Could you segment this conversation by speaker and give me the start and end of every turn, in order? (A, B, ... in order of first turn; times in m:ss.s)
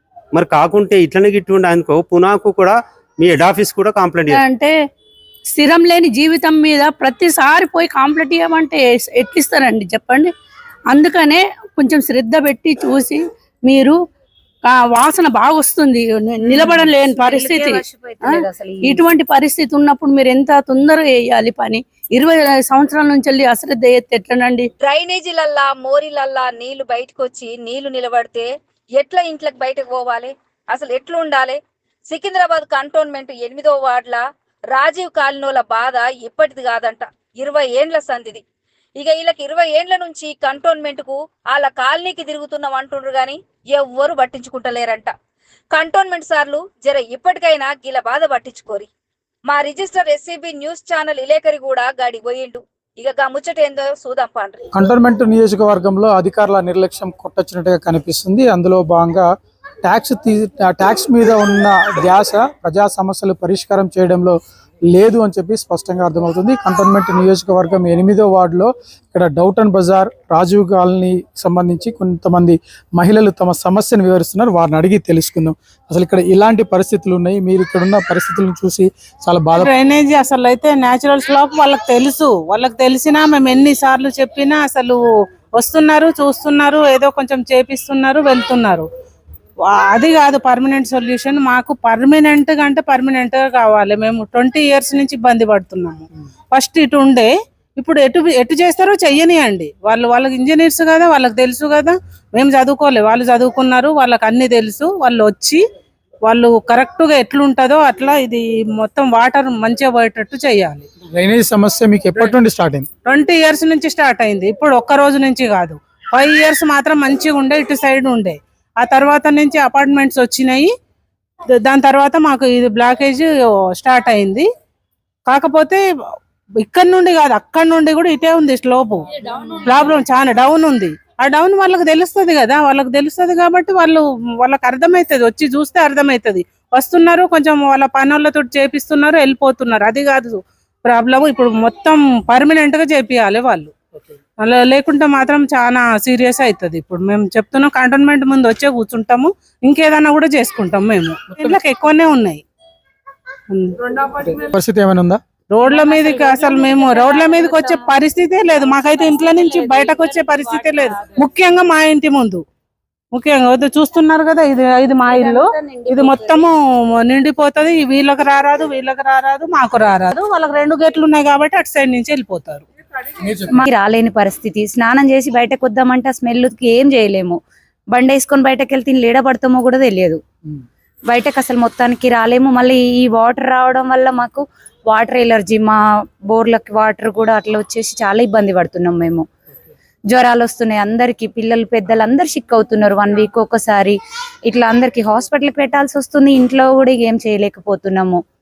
0:00.3-0:04.4 A
0:04.3-0:04.7 B
0:05.5-0:10.3 B
0:10.9-0:14.0 B
0:14.6-0:24.7 B
0:17.2-0:19.0 C
0:24.8-0:38.4 D
0:39.0-0:45.1 D
0:45.7-0:48.9 D
0:49.5-0:54.6 D
0:54.7-0:59.2 E
0:59.8-1:04.4 E
1:04.9-1:19.7 E
1:19.6-1:25.0 F
1:25.5-1:28.9 F
1:29.6-1:45.6 F
1:46.2-1:50.8 F
1:51.1-1:52.9 E
1:53.0-2:00.7 F
2:01.5-2:04.5 F
2:05.3-2:05.8 F
2:06.6-2:23.7 F
2:24.4-2:32.4 F
2:33.5-2:34.2 F
2:34.4-2:35.2 E
2:35.5-2:42.4 F
2:43.1-2:52.6 F
2:53.2-2:53.6 E
2:53.5-2:57.4 C
2:57.9-3:00.2 C
3:01.1-3:05.8 C
3:06.3-3:09.2 C
3:10.1-3:18.2 C